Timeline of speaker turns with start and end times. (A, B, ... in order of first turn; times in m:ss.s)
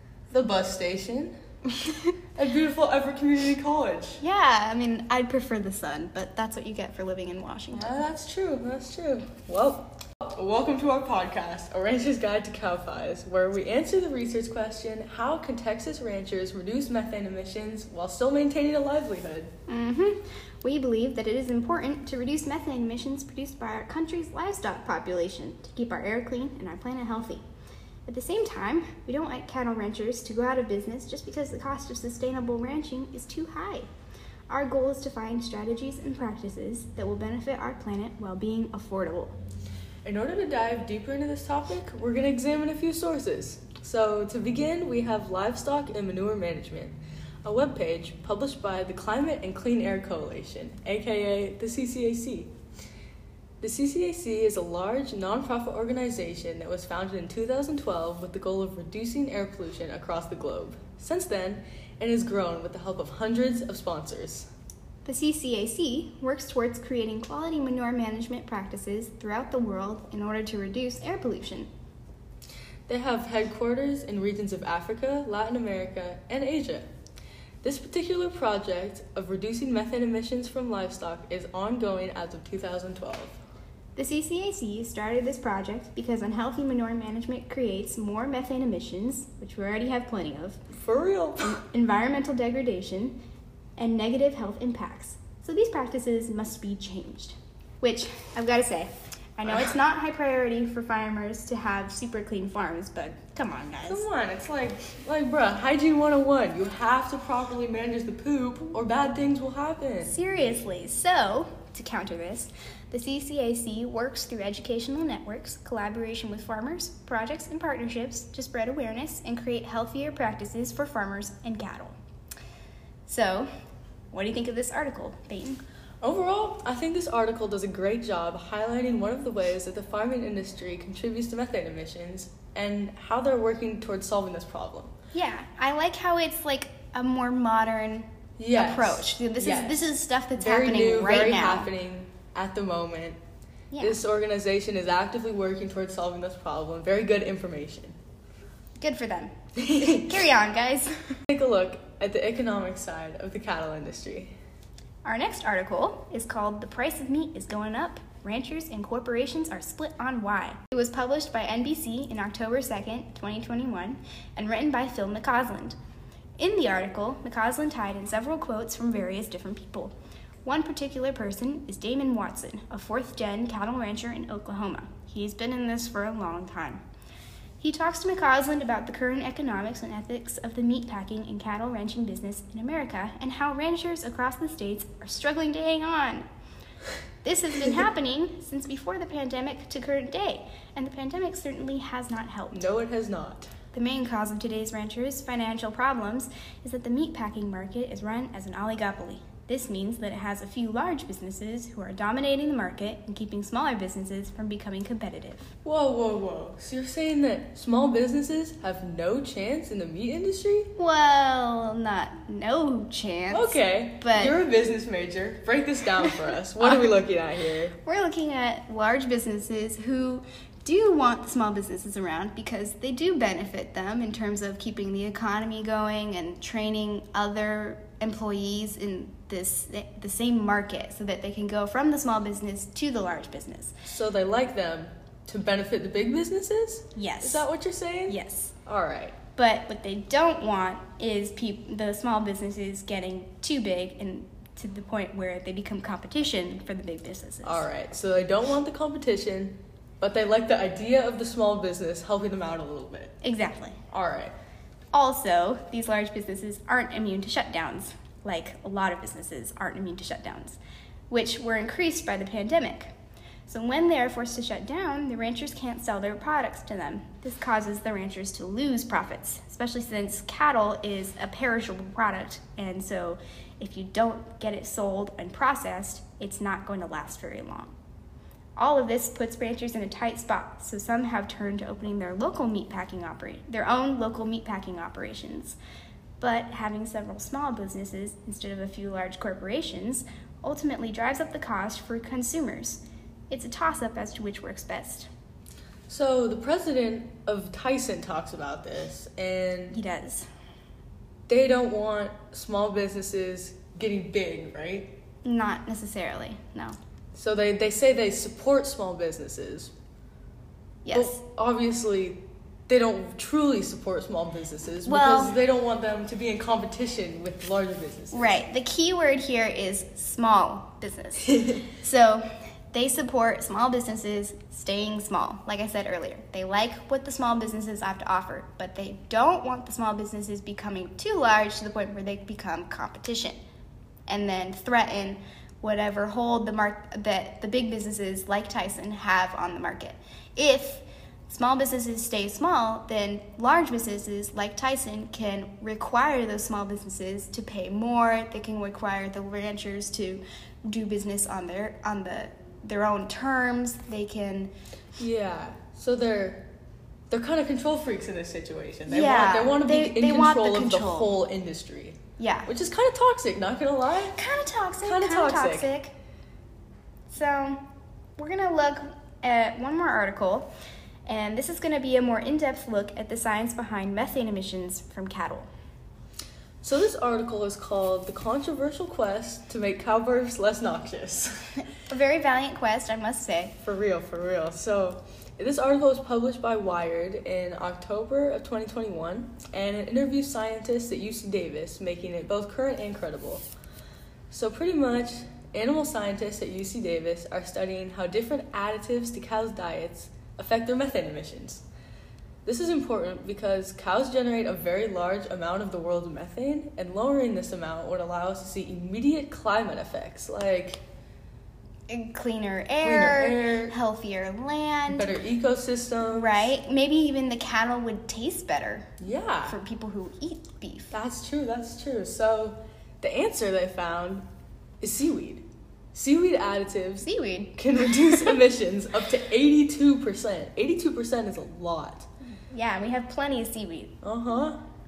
0:00.3-0:01.3 A
0:01.7-0:02.1 B
0:02.4-0:04.2 A
0:04.2-0:08.0 B
0:07.7-0:19.5 A
0:19.7-0:27.4 B
0:28.0-0:33.9 B
0:34.5-0:39.3 B
0:40.0-0:52.5 A
0:53.6-1:04.5 A
1:05.0-1:11.7 B
1:12.9-1:16.9 A
1:17.6-1:23.4 A
1:24.0-1:30.6 B
1:30.7-1:31.6 A
1:31.4-1:33.2 B
1:33.8-1:44.0 B
1:43.8-1:50.2 A
1:50.0-2:02.0 B
2:03.0-2:03.5 B
2:04.1-2:05.6 B
2:06.0-2:14.9 A
2:15.1-2:21.7 B
2:18.4-2:23.2 A
2:23.7-2:24.0 B
2:23.8-2:28.0 A
2:28.8-2:31.2 B
2:29.6-2:30.1 A
2:31.3-2:34.3 A
2:35.0-2:45.8 B
2:46.4-2:49.9 B
2:50.4-2:56.8 B
2:57.6-3:06.2 B
3:07.2-3:12.7 B
3:12.5-3:13.5 A
3:13.7-3:25.5 B
3:25.6-3:30.7 A
3:30.8-3:34.4 B
3:33.3-3:37.7 A
3:37.8-3:53.8 B
3:53.8-3:59.2 A
3:56.9-3:57.5 B
3:58.1-3:58.5 B
3:59.3-4:07.6 B
4:07.4-4:13.1 A
4:13.2-4:13.8 B
4:13.9-4:14.3 A
4:14.9-4:20.6 B
4:21.1-4:22.9 B
4:23.5-4:37.7 B
4:38.6-4:45.6 B
4:46.2-4:55.1 B
4:55.9-4:59.8 A
4:59.7-5:00.2 B
5:01.3-5:04.9 A
5:05.2-5:06.8 B
5:07.1-5:09.7 A
5:10.8-5:11.2 B
5:10.9-5:18.4 A
5:14.8-5:15.4 B
5:18.1-5:33.4 B
5:34.1-5:54.5 B
5:55.0-5:56.5 A
5:57.1-6:04.2 A
5:58.9-6:01.1 B
6:02.2-6:02.5 B
6:04.1-6:05.9 B
6:04.8-6:05.7 A
6:07.1-6:07.6 B
6:08.2-6:10.5 B
6:11.0-6:15.5 B
6:16.6-6:21.5 A
6:21.7-6:23.6 B
6:23.6-6:33.4 A
6:34.3-6:41.6 A
6:42.4-6:50.8 A
6:51.9-6:55.1 B
6:52.8-6:53.7 A
6:54.9-6:56.5 A
6:56.0-6:58.9 B
6:59.0-6:59.5 A
6:59.4-7:00.9 B
7:00.9-7:04.2 A
7:04.8-7:12.0 A
7:07.0-7:08.4 B
7:12.5-7:13.9 B
7:14.0-7:14.6 A